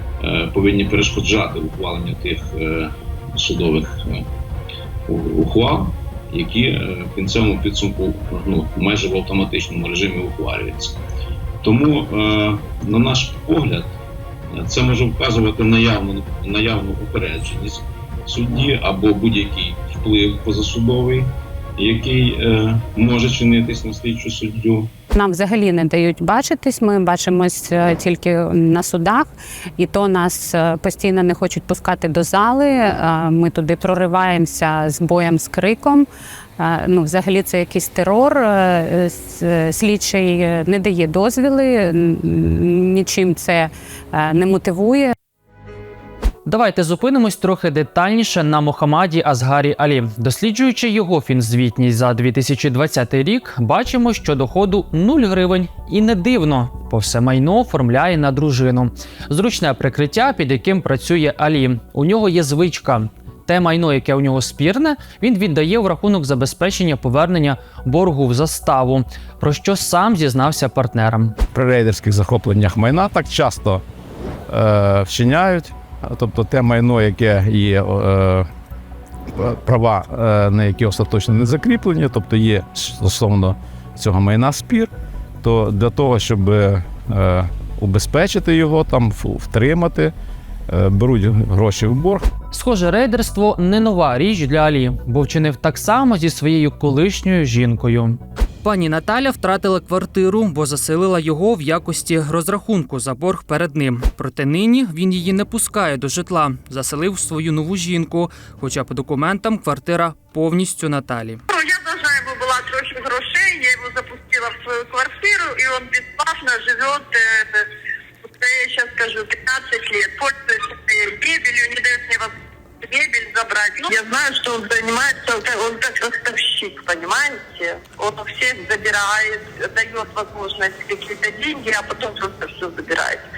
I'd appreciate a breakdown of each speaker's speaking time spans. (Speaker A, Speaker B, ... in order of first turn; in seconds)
Speaker A: 0.3-3.9, 5.1-10.9, 11.6-13.9, 14.5-24.9
Speaker B: 25.1-36.0, 36.6-45.1
Speaker C: 46.5-71.3, 92.5-111.4
Speaker D: 71.5-73.8, 74.5-78.5, 79.3-84.9, 85.4-90.1, 90.7-92.3
Speaker E: 111.5-117.7, 118.4-133.2